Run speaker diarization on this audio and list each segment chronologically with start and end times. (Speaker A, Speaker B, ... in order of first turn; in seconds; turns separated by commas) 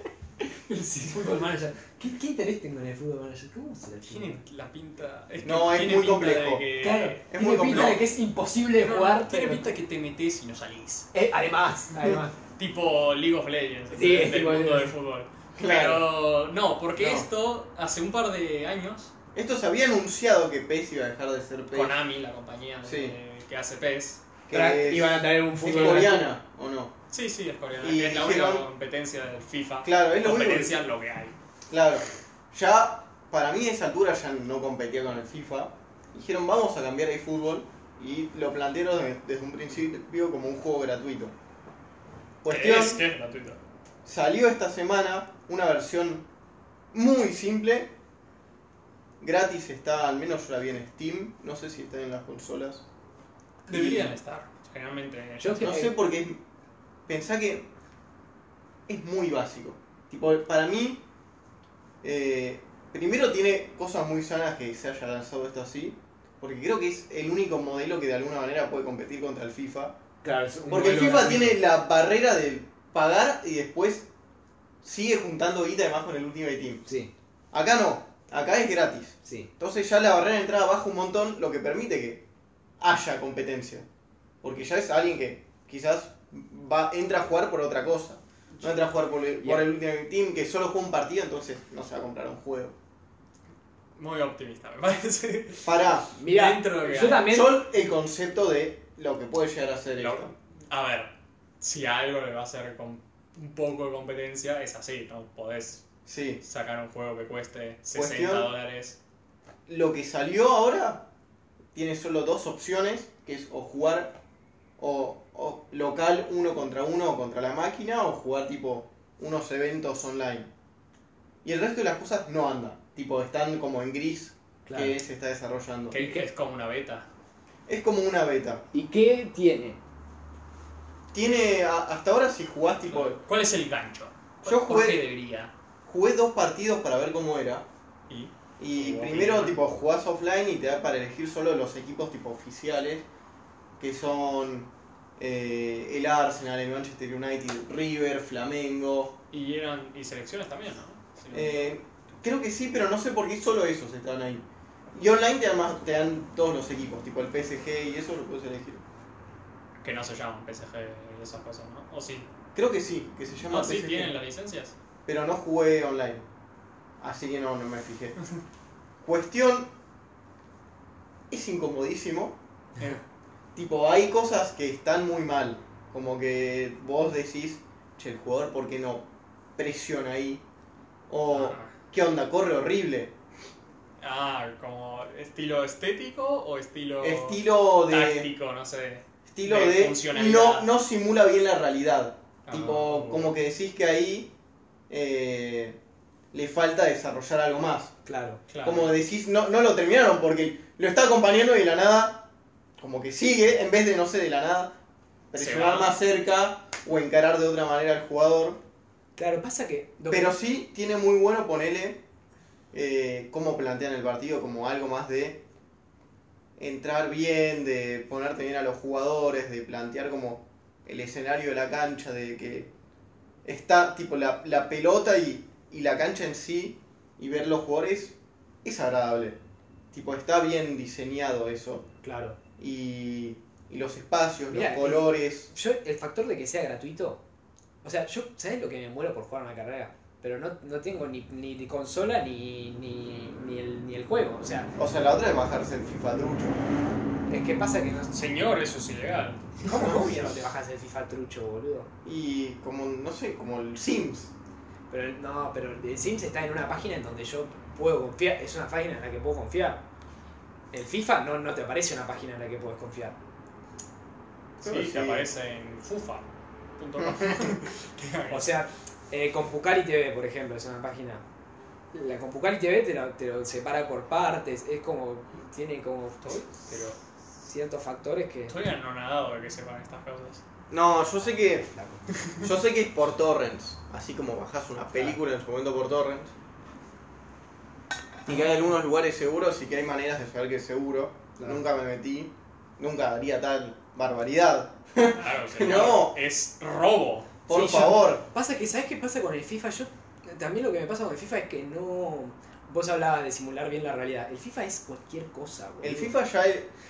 Speaker A: 0.4-4.4, Speaker B: 4.1-8.0, Speaker C: 5.4-6.7, Speaker A: 6.8-9.7, Speaker C: 7.3-8.0, Speaker B: 8.8-11.1, Speaker A: 11.1-12.4, Speaker B: 12.6-19.1, Speaker A: 13.9-14.9, Speaker C: 15.6-16.1, Speaker C: 17.0-17.2, Speaker C: 19.4-22.0, Speaker B: 21.7-24.2, Speaker C: 22.8-23.2, Speaker C: 24.5-26.9, Speaker A: 24.5-26.3, Speaker B: 27.1-31.4, Speaker C: 27.8-28.7, Speaker C: 29.8-30.8, Speaker C: 31.7-41.3, Speaker C: 42.4-43.0, Speaker B: 42.5-43.6, Speaker C: 44.0-46.2, Speaker C: 46.9-47.9, Speaker C: 49.2-52.9, Speaker B: 53.7-55.8, Speaker C: 53.7-54.1, Speaker A: 55.4-55.9, Speaker C: 55.6-56.4, Speaker C: 57.1-57.7, Speaker C: 58.9-61.0, Speaker C: 62.0-70.0, Speaker A: 70.2-71.6, Speaker C: 70.7-74.1, Speaker C: 74.8-76.8, Speaker A: 76.9-77.1, Speaker C: 77.5-82.2, Speaker A: 79.2-79.5, Speaker C: 82.8-83.9, Speaker C: 84.4-92.8, Speaker B: 88.6-88.8, Speaker B: 94.0-97.3, Speaker C: 95.7-96.1, Speaker A: 96.1-97.6, Speaker C: 97.2-100.3, Speaker B: 100.0-105.9, Speaker C: 106.1-106.4, Speaker B: 106.4-109.0, Speaker C: 107.9-108.5, Speaker C: 109.7-111.1, Speaker C: 111.7-114.2, Speaker C: 114.8-120.5, Speaker C: 121.4-126.0, Speaker A: 124.7-125.0, Speaker B: 125.9-127.1, Speaker A: 126.0-126.3, Speaker C: 127.7-128.6, Speaker A: 128.7-129.8, Speaker C: 131.1-133.2, Speaker B: 132.9-135.5, Speaker C: 134.4-135.1, Speaker C: 135.9-137.7, Speaker B: 138.1-139.6, Speaker C: 138.6-143.1, Speaker C: 143.8-149.2, Speaker B: 149.3-151.7, Speaker C: 151.3-158.8, Speaker B: 159.8-162.3, Speaker C: 162.6-164.2, Speaker B: 163.5-164.8, Speaker C: 165.1-166.2, Speaker C: 167.0-168.2, Speaker C: 169.0-169.7, Speaker C: 171.3-172.4, Speaker C: 173.6-179.1, Speaker C: 179.6-180.4, Speaker C: 181.1-183.1, Speaker B: 181.3-181.7, Speaker B: 184.0-190.7, Speaker C: 187.0-188.3, Speaker C: 189.3-194.3, Speaker B: 192.5-193.3, Speaker C: 194.9-195.8, Speaker C: 196.3-197.9, Speaker A: 198.1-198.4, Speaker B: 198.5-198.9, Speaker C: 198.7-202.3, Speaker C: 202.8-204.7, Speaker C: 205.3-208.6, Speaker B: 205.4-206.0, Speaker A: 209.2-210.4, Speaker C: 210.1-212.0, Speaker C: 212.7-215.4, Speaker C: 216.6-222.7, Speaker C: 223.4-229.4, Speaker C: 229.9-231.9, Speaker A: 232.0-232.4, Speaker C: 232.6-235.5, Speaker A: 234.5-237.2, Speaker A: 237.8-244.7, Speaker C: 244.8-246.6, Speaker A: 247.3-248.1, Speaker B: 248.1-249.7, Speaker A: 249.6-251.9, Speaker C: 249.7-250.3, Speaker C: 252.1-254.3, Speaker A: 254.9-259.8, Speaker A: 260.7-263.2, Speaker C: 264.6-265.3, Speaker B: 264.6-266.3, Speaker B: 266.8-268.5, Speaker C: 267.0-267.5, Speaker A: 268.3-271.2, Speaker A: 271.9-276.8, Speaker B: 276.2-277.0, Speaker A: 277.3-278.6, Speaker B: 278.5-280.4, Speaker C: 280.7-281.7, Speaker A: 281.7-282.1, Speaker C: 282.4-286.3, Speaker C: 288.3-296.2, Speaker B: 295.1-297.3, Speaker C: 297.5-298.2, Speaker A: 297.5-306.1, Speaker C: 305.8-306.7